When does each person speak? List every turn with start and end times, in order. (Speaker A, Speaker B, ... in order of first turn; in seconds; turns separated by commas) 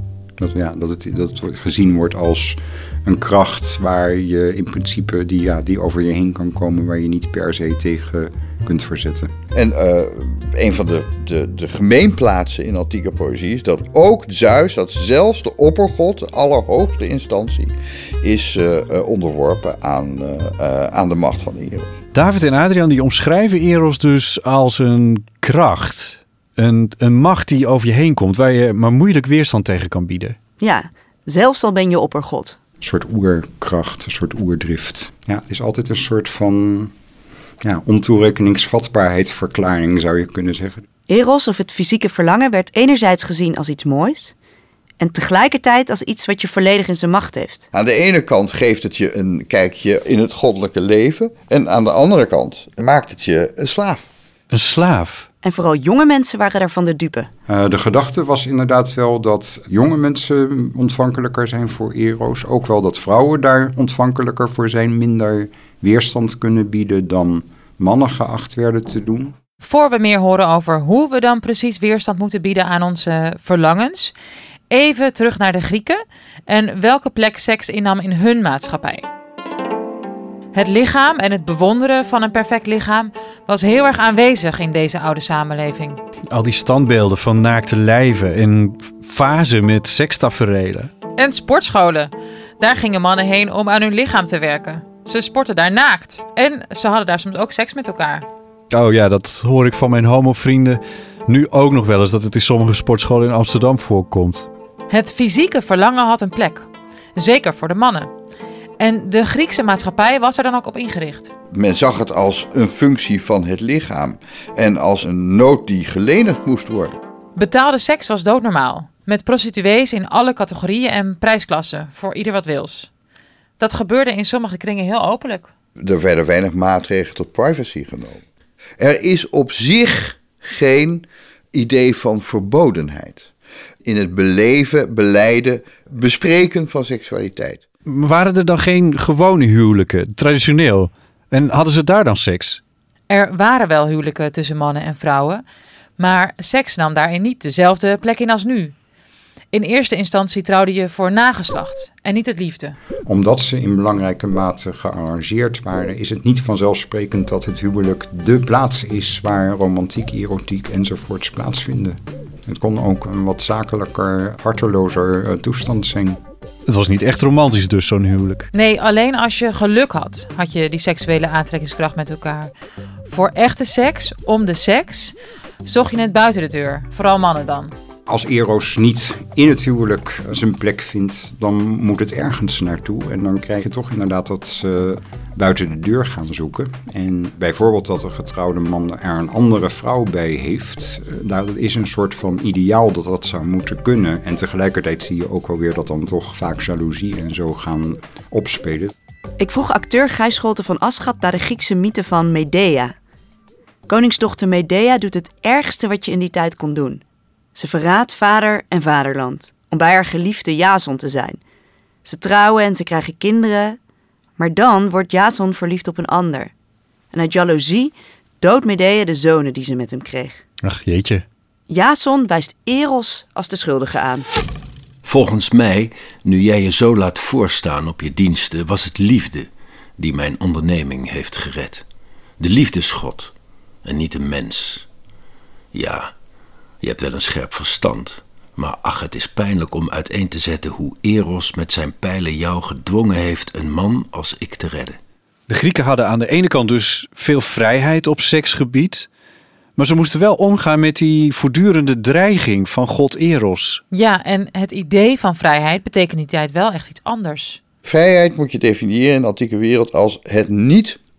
Speaker A: 0.4-9.3, Speaker B: 9.5-21.9, Speaker C: 22.1-30.4, Speaker D: 30.6-32.6, Speaker A: 32.8-36.9, Speaker A: 37.6-40.8, Speaker D: 41.1-44.3, Speaker D: 45.0-47.6, Speaker B: 47.7-54.0, Speaker C: 54.5-55.3, Speaker D: 55.4-57.3, Speaker A: 57.5-69.3, Speaker E: 69.6-74.1, Speaker E: 74.7-79.0, Speaker E: 80.5-86.0, Speaker C: 86.3-90.9, Speaker E: 91.2-98.2, Speaker C: 98.7-104.5, Speaker E: 104.9-108.1, Speaker E: 108.8-111.3, Speaker B: 111.5-117.0, Speaker E: 117.3-122.9, Speaker E: 123.6-125.5, Speaker B: 125.8-128.2, Speaker B: 128.8-133.3, Speaker B: 133.8-137.6, Speaker C: 137.9-142.6, Speaker E: 143.1-145.4, Speaker E: 146.0-148.7, Speaker E: 149.5-152.8, Speaker A: 153.1-166.2, Speaker C: 166.7-168.5, Speaker E: 168.5-172.5, Speaker E: 173.1-177.7, Speaker A: 178.1-198.9, Speaker D: 199.4-202.9, Speaker D: 203.9-207.0, Speaker D: 207.5-211.4, Speaker D: 212.0-213.8, Speaker D: 214.4-216.5, Speaker D: 217.1-220.4, Speaker C: 220.6-221.2, Speaker D: 221.7-224.2, Speaker F: 225.0-231.8, Speaker F: 232.4-233.3, Speaker F: 233.8-234.9, Speaker F: 235.7-236.1, Speaker F: 236.8-245.0, Speaker C: 245.5-249.1, Speaker C: 249.8-253.8, Speaker E: 253.9-257.6, Speaker B: 257.8-261.0